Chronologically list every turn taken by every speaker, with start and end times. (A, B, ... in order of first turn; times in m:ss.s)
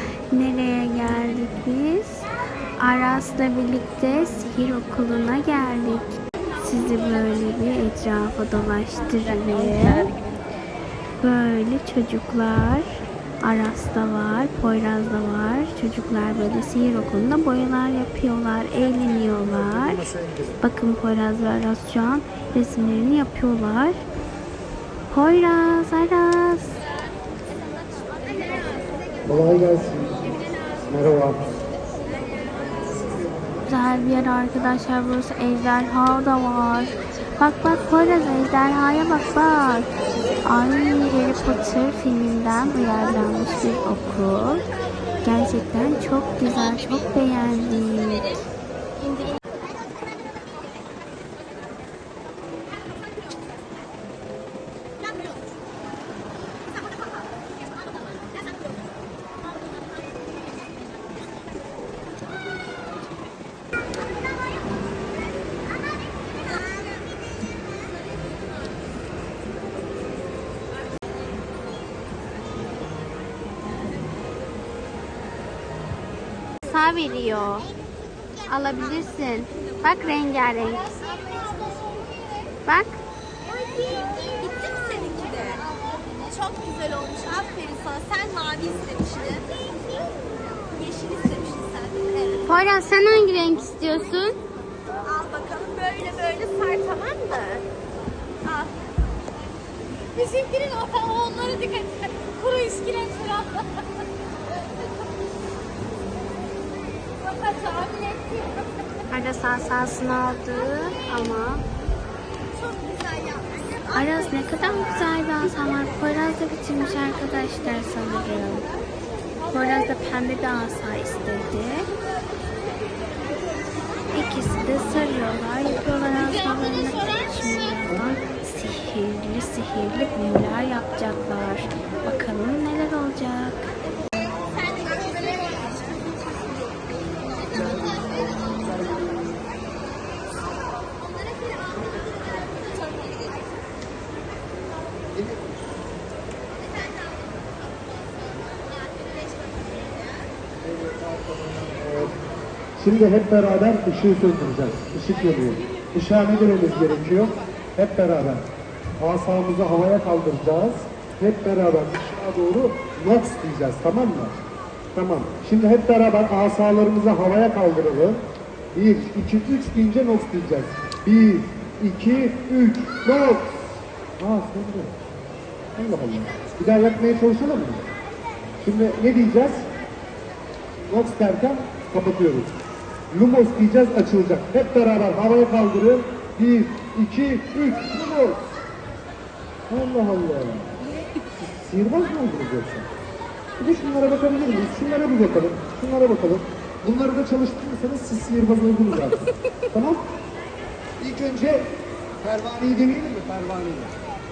0:00.3-0:02.3 A
0:02.8-0:06.1 A
0:06.6-0:10.1 A
0:11.2-0:20.1 A
0:19.7-0:20.5 B
0:20.6-0:24.0 A
0:25.1-0:26.8 A
0:29.2-0:31.5 B
0:33.7-0:39.9 A
0:40.5-0:48.4 A
1:16.6-1:17.7 A
1:18.5-1:21.2 A
1:22.6-1:23.0 A
1:23.9-1:25.6 C
1:26.4-1:29.6 C
1:30.8-1:32.3 C
1:32.4-1:34.4 A
1:35.1-1:37.6 C
1:40.1-1:43.6 C
1:47.6-1:48.1 C
1:49.1-1:51.6 A
1:53.9-1:58.7 A
1:59.5-2:01.9 A
2:04.1-2:13.7 A
2:15.0-2:15.5 C
2:30.7-2:32.1 B
2:32.8-2:38.5 B
2:39.0-2:44.4 B
2:44.9-2:55.0 B
2:55.7-2:57.9 B
2:58.6-2:59.7 B
3:00.8-3:02.5 B
3:03.1-3:08.6 B
3:09.7-3:10.7 B
3:11.4-3:12.9 B
3:13.6-3:20.0 B
3:21.0-3:21.7 B
3:22.2-3:23.9 B